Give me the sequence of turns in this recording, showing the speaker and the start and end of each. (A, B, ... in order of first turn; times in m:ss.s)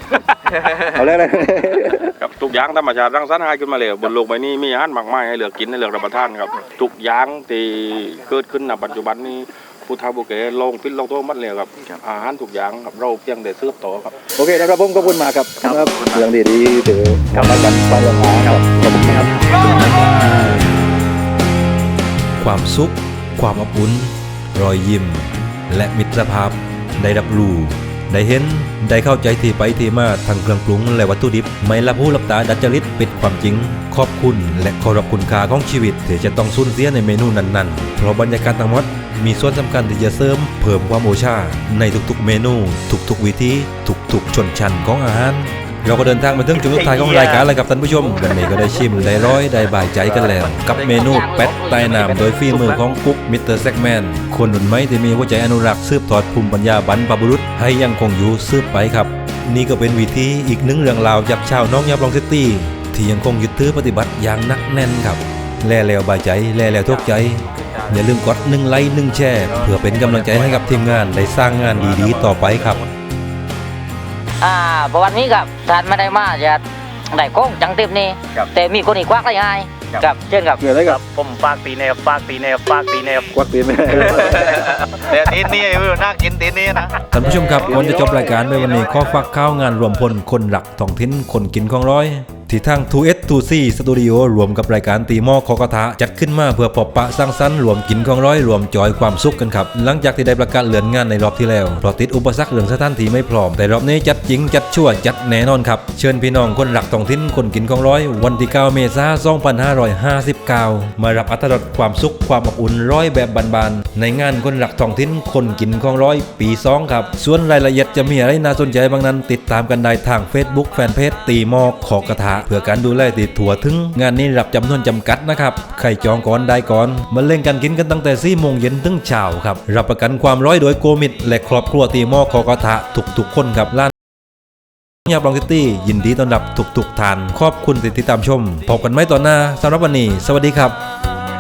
0:00.5-0:01.0 A
0:00.9-0:02.1 B
0:02.2-0:14.1 C
0:14.4-0:19.9 B
0:15.6-0:16.3 A
0:17.3-0:19.6 D
0:19.5-0:20.4 A
0:22.4-1:12.8 E
0:46.5-0:47.5 D
0:48.3-0:48.7 D
0:50.7-0:52.7 F
1:06.8-1:08.0 A
1:09.4-1:11.0 A
1:11.9-1:12.4 A
1:14.4-1:20.6 F
1:20.6-1:21.0 B
1:20.8-1:23.3 D
1:23.3-1:24.7 B
1:24.0-1:27.0 A
1:27.1-2:13.9 E
1:27.4-1:28.6 B
1:27.5-1:29.2 A
2:15.1-2:20.8 E